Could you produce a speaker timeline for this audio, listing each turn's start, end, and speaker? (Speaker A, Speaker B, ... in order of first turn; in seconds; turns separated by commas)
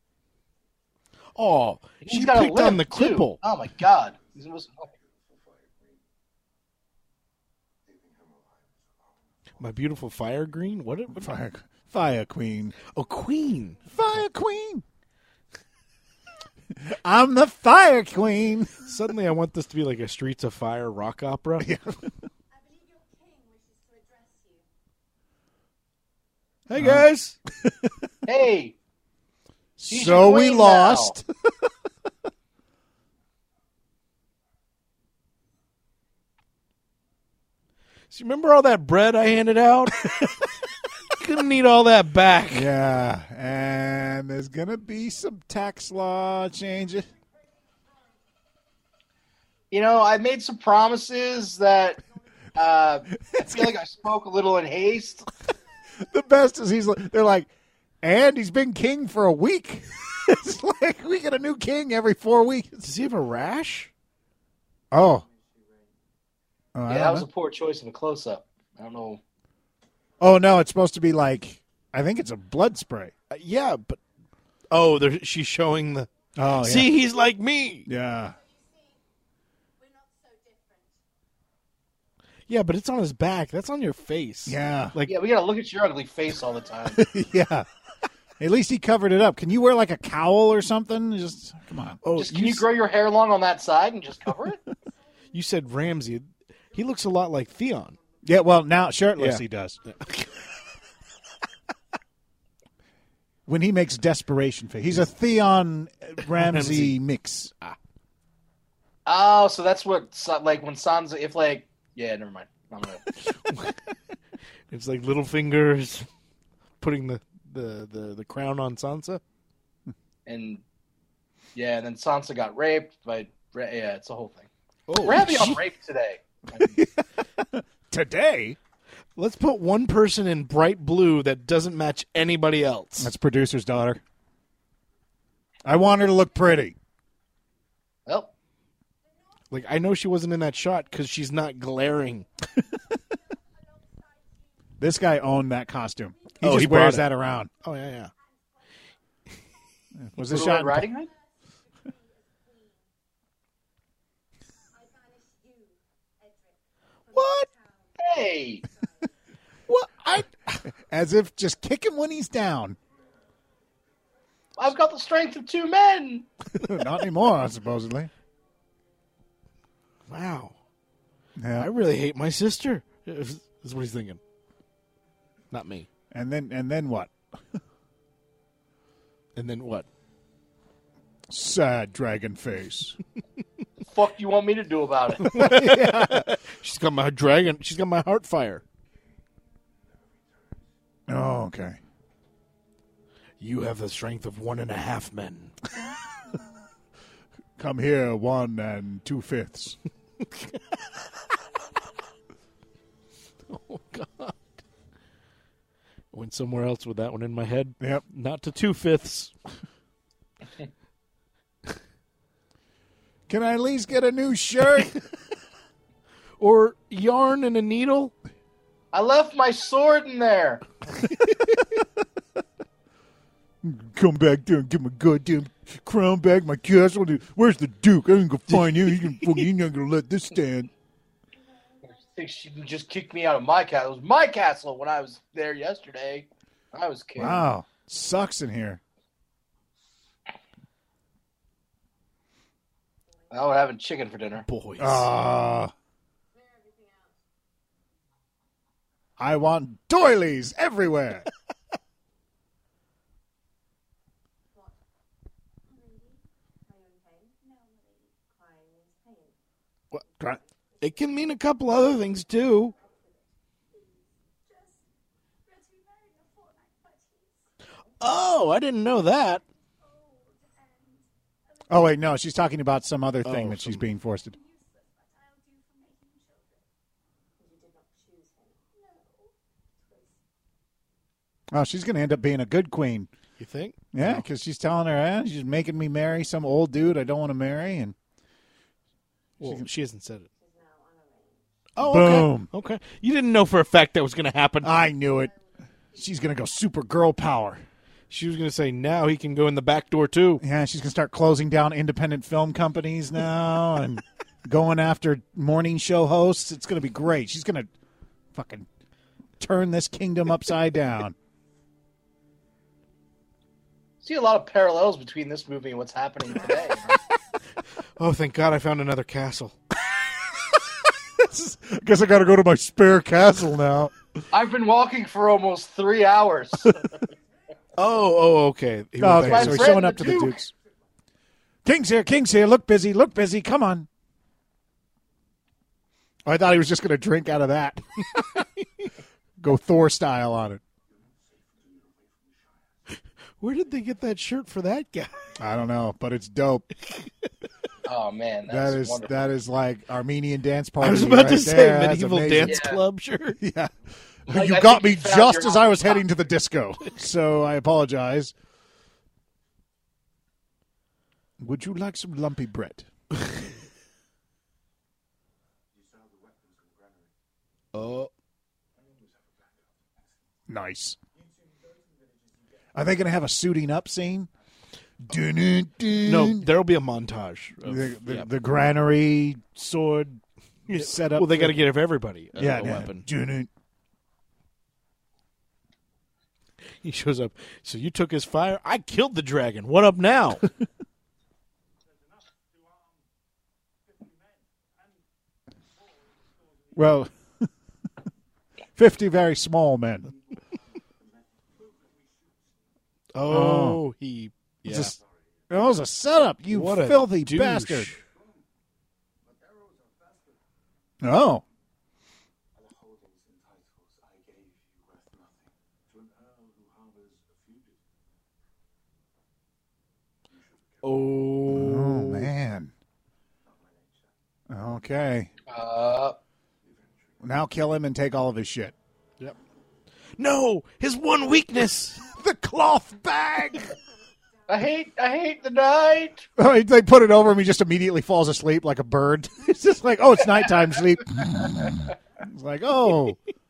Speaker A: 1.3-3.4, Speaker B: 2.0-4.9, Speaker C: 4.8-6.0, Speaker C: 7.8-9.2, Speaker A: 9.6-11.3, Speaker D: 11.1-12.8, Speaker A: 12.9-13.8, Speaker D: 13.9-14.8, Speaker D: 16.8-18.9, Speaker A: 18.8-21.7, Speaker D: 21.6-22.0, Speaker E: 22.5-24.6, Speaker A: 26.7-27.4, Speaker D: 26.8-27.1, Speaker B: 28.2-28.7, Speaker D: 29.8-31.2, Speaker B: 29.9-31.2, Speaker A: 38.1-40.2, Speaker A: 41.1-42.7, Speaker D: 42.5-47.1, Speaker E: 47.1-48.2, Speaker B: 49.7-52.0, Speaker B: 52.5-55.3, Speaker D: 53.2-53.7, Speaker D: 56.0-57.5, Speaker D: 58.0-62.8, Speaker A: 62.8-63.9, Speaker D: 64.9-65.2, Speaker C: 65.0-65.9, Speaker D: 66.7-67.3, Speaker B: 66.9-69.2, Speaker D: 70.2-73.1, Speaker A: 73.3-74.0, Speaker A: 74.7-77.9, Speaker D: 76.3-76.9, Speaker D: 77.8-78.3, Speaker E: 78.2-79.0, Speaker E: 79.8-81.0, Speaker A: 82.5-85.2, Speaker D: 84.5-85.0, Speaker B: 85.0-87.0, Speaker D: 86.9-87.7, Speaker D: 88.4-92.0, Speaker A: 92.0-92.7, Speaker B: 92.1-94.6, Speaker E: 94.8-96.2, Speaker A: 95.3-98.0, Speaker D: 98.2-99.8, Speaker A: 99.2-100.4, Speaker E: 100.0-100.8, Speaker D: 103.5-107.5, Speaker A: 106.2-107.0, Speaker B: 109.0-113.0, Speaker A: 113.2-113.8, Speaker A: 114.7-116.1, Speaker A: 116.8-119.2, Speaker B: 120.2-120.6, Speaker B: 121.5-124.5, Speaker A: 124.9-125.6, Speaker B: 125.0-126.8, Speaker D: 126.6-128.6, Speaker A: 129.2-133.1, Speaker D: 133.0-134.0, Speaker D: 135.6-136.7, Speaker B: 138.1-138.3, Speaker E: 139.0-145.2, Speaker A: 139.5-142.3, Speaker D: 144.8-147.5, Speaker E: 146.1-149.8, Speaker A: 146.4-147.1, Speaker A: 147.6-148.1, Speaker D: 149.9-150.9, Speaker B: 150.2-151.1, Speaker E: 151.0-152.9, Speaker E: 154.7-159.1, Speaker A: 157.1-157.5, Speaker B: 158.0-158.6, Speaker D: 159.7-162.8, Speaker B: 164.6-166.3, Speaker D: 166.6-168.1, Speaker A: 170.1-170.6, Speaker D: 171.4-171.7, Speaker A: 171.6-174.2, Speaker A: 175.5-175.9, Speaker D: 176.1-177.1, Speaker A: 179.3-179.9, Speaker D: 181.3-183.0, Speaker B: 183.8-185.4, Speaker A: 185.2-188.6, Speaker D: 185.3-186.3, Speaker C: 190.2-190.5, Speaker D: 191.1-191.8, Speaker A: 193.4-195.6, Speaker D: 197.6-199.8, Speaker A: 200.2-201.0, Speaker A: 203.5-204.4, Speaker A: 206.1-209.3, Speaker D: 213.3-214.9, Speaker A: 216.4-218.1, Speaker B: 218.9-220.6, Speaker D: 223.6-230.7, Speaker A: 228.5-229.5, Speaker E: 231.3-232.4, Speaker B: 232.2-237.4, Speaker D: 237.2-238.8, Speaker E: 243.2-243.5, Speaker B: 243.3-244.4, Speaker A: 244.5-245.1, Speaker D: 244.8-245.7, Speaker E: 246.3-247.2, Speaker D: 249.2-251.3, Speaker E: 254.5-254.8, Speaker E: 255.6-259.4, Speaker E: 260.2-264.9, Speaker A: 260.8-262.7, Speaker E: 265.4-267.5, Speaker A: 268.0-269.4, Speaker E: 269.4-271.9, Speaker D: 271.7-274.4, Speaker A: 273.2-273.9, Speaker E: 274.3-276.7, Speaker E: 277.4-280.2, Speaker D: 281.5-283.1, Speaker A: 283.4-284.2, Speaker D: 283.9-287.9, Speaker A: 289.4-290.3, Speaker D: 289.4-289.7, Speaker E: 290.3-291.5, Speaker A: 291.8-294.7, Speaker D: 291.8-292.5, Speaker D: 294.6-295.3, Speaker E: 294.9-296.4, Speaker D: 295.9-297.6, Speaker A: 298.1-300.4, Speaker D: 300.4-307.7, Speaker D: 308.3-308.7, Speaker D: 309.4-311.1, Speaker B: 314.0-317.0, Speaker E: 316.4-317.0, Speaker A: 317.9-319.6, Speaker D: 321.1-323.9, Speaker B: 324.3-326.9, Speaker A: 327.8-329.9, Speaker D: 329.0-330.5, Speaker B: 329.2-330.4, Speaker D: 331.6-333.9, Speaker D: 336.2-338.4, Speaker D: 339.4-340.6, Speaker C: 340.9-342.8, Speaker A: 343.4-345.3, Speaker D: 345.4-346.7, Speaker A: 346.8-347.3, Speaker B: 347.9-349.3, Speaker D: 348.5-352.7, Speaker A: 350.8-353.4, Speaker B: 352.4-352.8, Speaker D: 353.4-353.7, Speaker D: 354.2-358.3, Speaker B: 354.3-356.1, Speaker D: 361.4-362.9, Speaker C: 365.7-367.1, Speaker A: 367.7-368.1, Speaker C: 368.8-370.0, Speaker D: 370.5-371.0, Speaker C: 371.5-372.3, Speaker D: 372.7-374.3, Speaker D: 375.1-376.5, Speaker A: 376.0-378.3, Speaker D: 377.6-381.6, Speaker A: 380.7-383.1, Speaker D: 382.4-383.5, Speaker A: 386.8-390.5, Speaker D: 396.7-397.5, Speaker D: 398.7-400.1, Speaker C: 401.0-402.5, Speaker A: 403.1-404.9, Speaker D: 403.2-403.8, Speaker D: 404.6-405.0, Speaker D: 405.5-407.9, Speaker A: 406.5-408.0, Speaker C: 409.2-410.4, Speaker D: 411.0-411.4, Speaker C: 412.5-417.8, Speaker C: 420.3-421.2, Speaker A: 420.8-422.3, Speaker D: 421.4-422.7, Speaker C: 423.4-424.1, Speaker D: 424.5-425.3, Speaker B: 425.5-426.2, Speaker C: 426.6-427.1, Speaker D: 427.2-428.7, Speaker A: 430.1-432.0, Speaker D: 432.1-433.7, Speaker E: 434.4-435.4, Speaker B: 434.5-436.3, Speaker D: 436.4-443.2